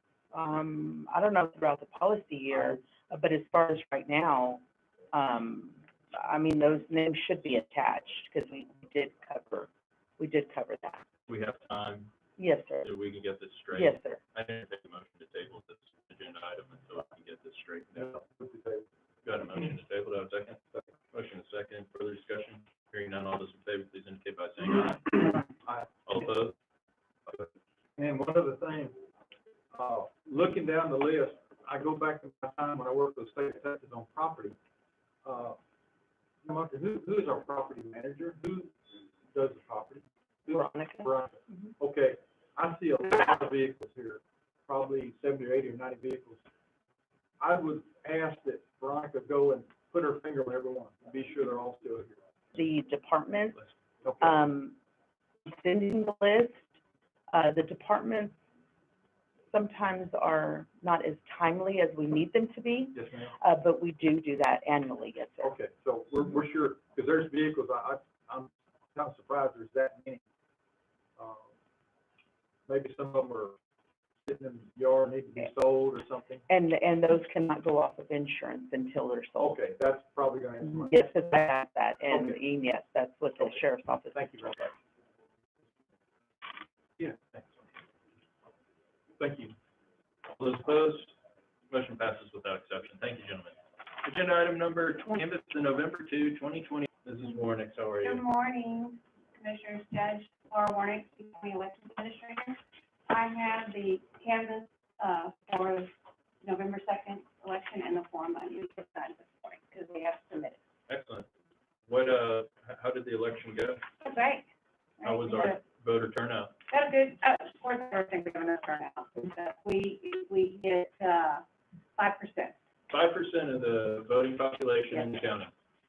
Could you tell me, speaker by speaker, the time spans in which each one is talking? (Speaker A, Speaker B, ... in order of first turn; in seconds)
Speaker A: 0.3-11.0, 12.4-12.9, 13.7-14.2, 40.5-41.1, 52.5-53.6, 54.2-54.8, 55.5-56.6, 57.3-58.3, 59.5-65.5, 76.5-79.6, 80.6-84.7
Speaker B: 11.3-12.1, 12.8-18.2, 19.2-20.6, 21.1-25.2, 26.1-26.5, 90.3-91.1, 91.7-98.2, 110.9-111.3, 111.9-113.8, 115.0-116.5, 122.9-125.5
Speaker C: 17.9-18.9, 25.6-26.2, 27.3-29.0, 29.7-34.6, 35.2-35.6, 36.4-38.7, 39.3-46.4, 47.4-52.2, 54.0-54.4, 62.9-63.3, 65.4-70.2, 71.2-71.5, 72.7-73.6, 74.2-76.4, 79.4-80.9, 82.1-82.4, 84.1-84.7, 87.0-87.4, 89.2-89.5
Speaker D: 98.0-105.9, 106.4-110.6, 114.0-114.5, 115.0-115.6, 116.7-121.4, 122.0-122.5, 124.9-125.3